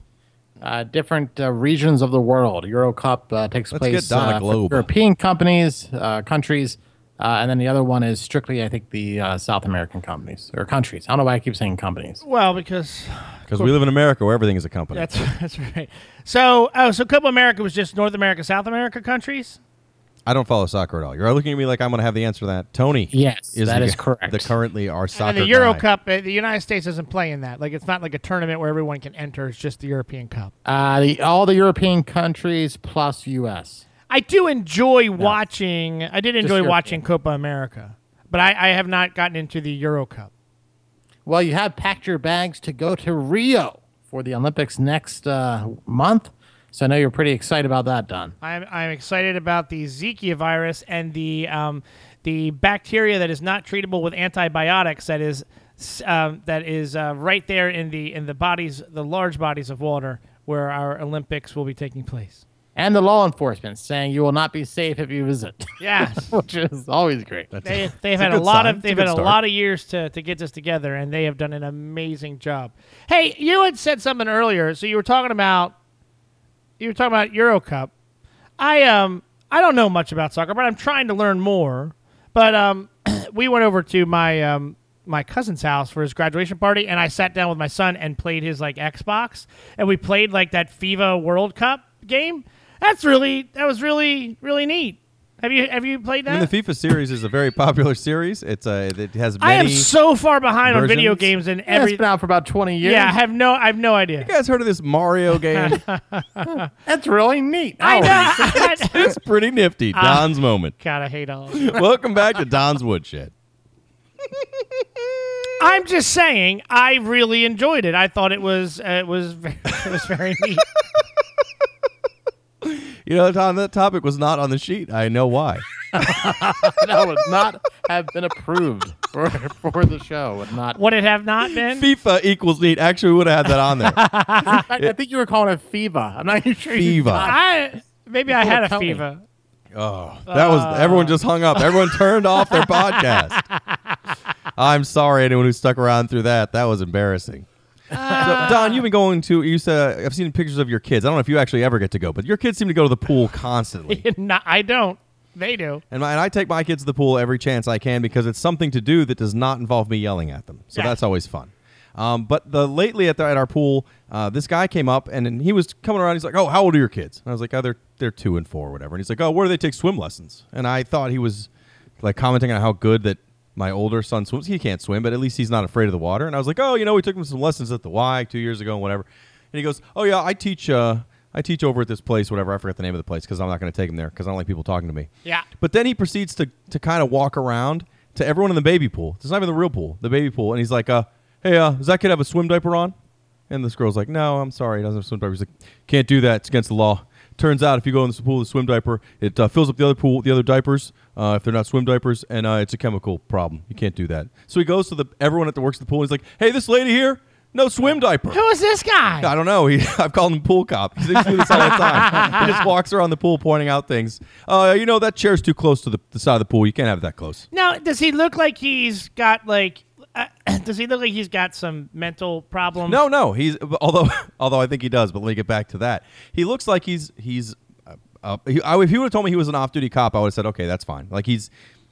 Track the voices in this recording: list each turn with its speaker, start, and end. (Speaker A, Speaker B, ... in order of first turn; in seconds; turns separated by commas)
Speaker A: 0.6-12.2, Speaker B: 3.7-4.9, Speaker C: 12.2-13.7, Speaker B: 13.5-15.1, Speaker C: 14.9-19.6, Speaker B: 20.2-25.8, Speaker A: 23.1-24.5, Speaker C: 25.1-30.5, Speaker A: 30.6-33.9, Speaker C: 34.1-40.3, Speaker A: 36.4-37.0, Speaker A: 41.2-48.3, Speaker C: 48.4-62.4, Speaker A: 62.8-67.5, Speaker C: 65.8-66.3, Speaker B: 67.5-69.4, Speaker C: 67.6-75.7, Speaker C: 76.8-77.9, Speaker C: 78.6-96.5, Speaker B: 96.3-99.9, Speaker C: 99.4-102.0, Speaker B: 100.6-101.3, Speaker A: 101.7-103.2, Speaker C: 102.8-104.3, Speaker B: 104.2-105.8, Speaker C: 105.5-106.7, Speaker A: 106.8-109.0, Speaker C: 107.8-109.1, Speaker B: 108.2-110.7, Speaker C: 109.9-111.8, Speaker B: 111.5-113.3, Speaker C: 115.6-120.7, Speaker B: 122.6-125.7, Speaker A: 125.9-130.8, Speaker C: 130.7-131.9, Speaker B: 131.7-134.0, Speaker C: 133.7-134.7, Speaker A: 134.5-137.4, Speaker B: 136.7-137.3, Speaker C: 137.2-139.2, Speaker A: 138.3-139.0, Speaker B: 139.7-143.4, Speaker C: 140.3-141.9, Speaker C: 142.5-143.9, Speaker B: 144.6-147.5, Speaker C: 147.9-148.8, Speaker B: 148.1-154.1, Speaker C: 153.9-155.8, Speaker B: 155.9-171.5, Speaker B: 172.0-192.9, Speaker B: 193.5-208.4, Speaker C: 208.3-209.3, Speaker B: 209.2-217.4, Speaker C: 211.2-212.6, Speaker C: 217.5-223.0, Speaker B: 222.8-231.5